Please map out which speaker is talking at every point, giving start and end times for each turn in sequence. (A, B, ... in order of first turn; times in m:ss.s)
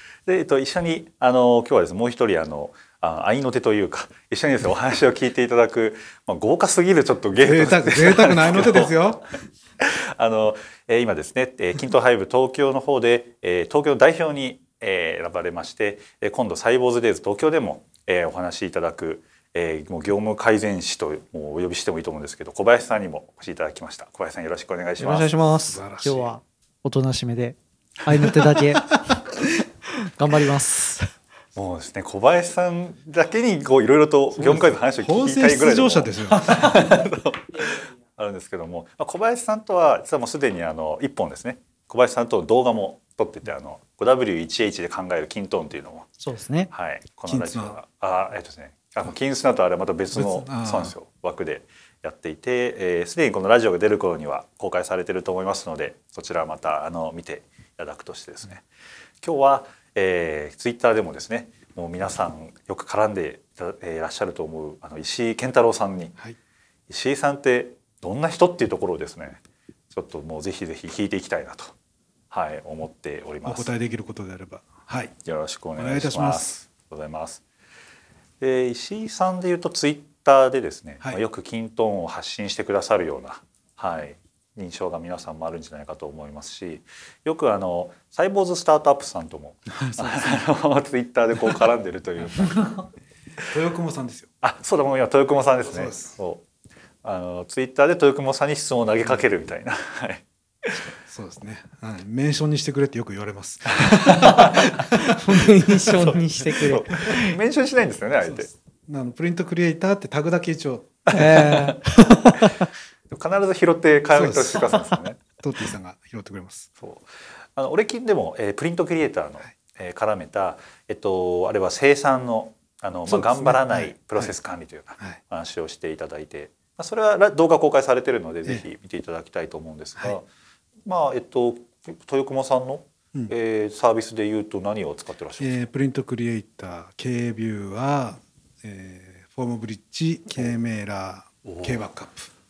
0:00.2-0:09.0 A
0:07.4-0:09.3 B
0:09.8-0:25.3 A
0:25.0-0:31.1 C
0:25.6-0:26.3 B
0:31.5-0:46.1 A
0:34.3-0:36.9 B
0:46.2-0:46.7 C
0:46.7-0:58.6 A
0:47.3-0:47.8 B
0:50.1-0:50.9 B
0:59.2-1:06.2 A
1:06.9-1:11.7 A
1:12.3-1:13.7 A
1:13.4-1:15.1 B
1:15.2-1:17.4 A
1:15.8-1:16.5 B
1:18.4-1:32.9 A
1:29.7-1:30.5 B
1:33.5-1:34.3 B
1:34.4-1:36.4 A
1:35.7-1:36.1 B
1:37.0-1:40.9 A
1:41.0-1:46.0 B
1:43.8-1:44.5 A
1:44.0-1:47.4 C
1:45.9-1:48.5 A
1:48.2-1:51.7 B
1:51.1-1:51.8 A
1:51.1-1:52.7 C
1:53.1-1:55.2 A
1:54.1-1:56.7 B
1:56.8-2:10.3 A
2:03.1-2:04.4 B
2:10.8-2:15.6 A
2:15.4-2:22.3 B
2:21.4-2:21.9 A